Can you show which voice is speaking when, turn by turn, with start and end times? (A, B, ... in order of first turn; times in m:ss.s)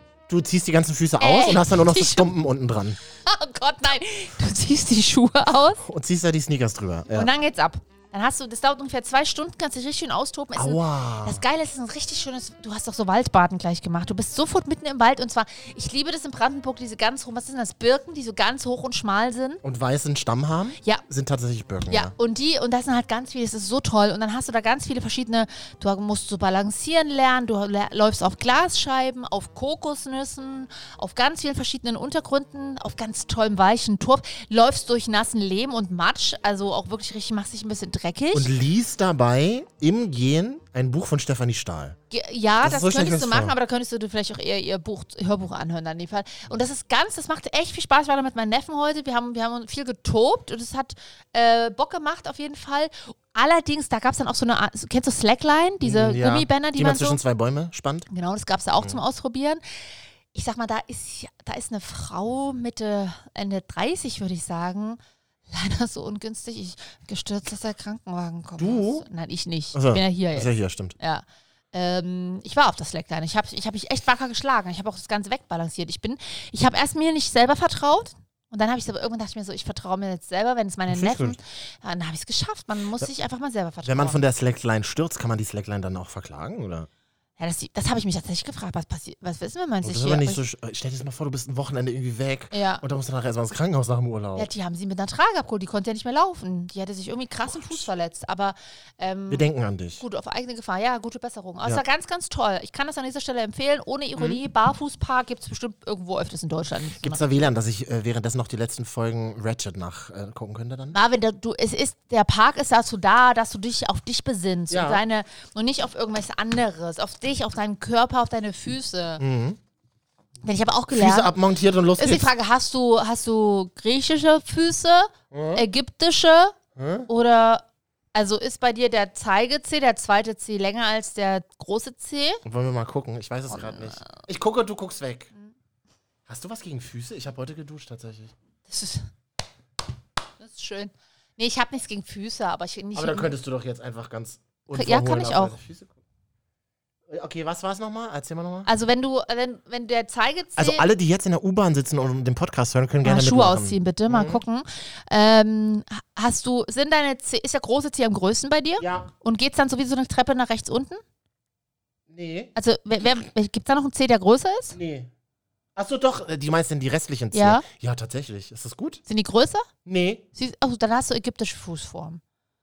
0:00.3-0:03.0 A
0:01.2-0:02.3 B
0:03.2-0:05.8 B
0:05.8-0:07.3 A
0:07.1-0:19.6 B
0:10.6-0:11.4 A
0:19.6-0:22.1 A
0:21.9-0:38.5 B
0:38.3-0:42.0 A
0:42.1-0:57.2 B
0:42.6-0:43.6 A
0:55.8-0:58.1 A
0:58.1-0:59.6 B
1:00.3-1:05.0 B
1:05.5-1:24.2 B
1:08.6-1:09.1 A
1:09.7-1:11.0 A
1:20.9-1:21.4 A
1:23.8-1:26.9 A
1:27.4-1:30.4 B
1:29.8-1:34.5 A
1:32.5-1:32.8 B
1:34.4-1:39.5 B
1:37.5-1:37.9 A
1:39.3-1:40.0 A
1:40.0-1:47.5 B
1:47.0-1:51.0 A
1:50.9-1:59.2 B
1:54.7-1:55.0 A
1:59.2-1:59.6 A
2:00.4-2:01.3 B
2:00.9-2:02.3 A
2:02.0-2:06.6 B
2:05.3-2:05.6 A
2:06.8-2:07.1 A
2:07.1-2:07.6 B
2:08.1-2:12.4 B
2:12.4-2:15.3 A
2:13.5-2:14.1 B
2:16.3-2:18.3 A
2:18.7-2:19.1 B
2:20.4-2:23.3 B
2:23.0-2:25.9 A
2:24.7-2:25.6 B
2:27.1-2:28.7 A
2:28.7-2:30.9 B
2:30.6-2:34.4 A
2:33.0-2:41.0 B
2:38.8-2:39.1 A
2:42.1-2:42.5 A
2:42.6-2:44.8 B
2:44.7-2:45.1 A
2:45.8-2:49.0 A
2:47.3-2:47.6 B
2:49.1-2:49.7 B
2:49.8-2:50.2 A
2:50.3-2:52.2 B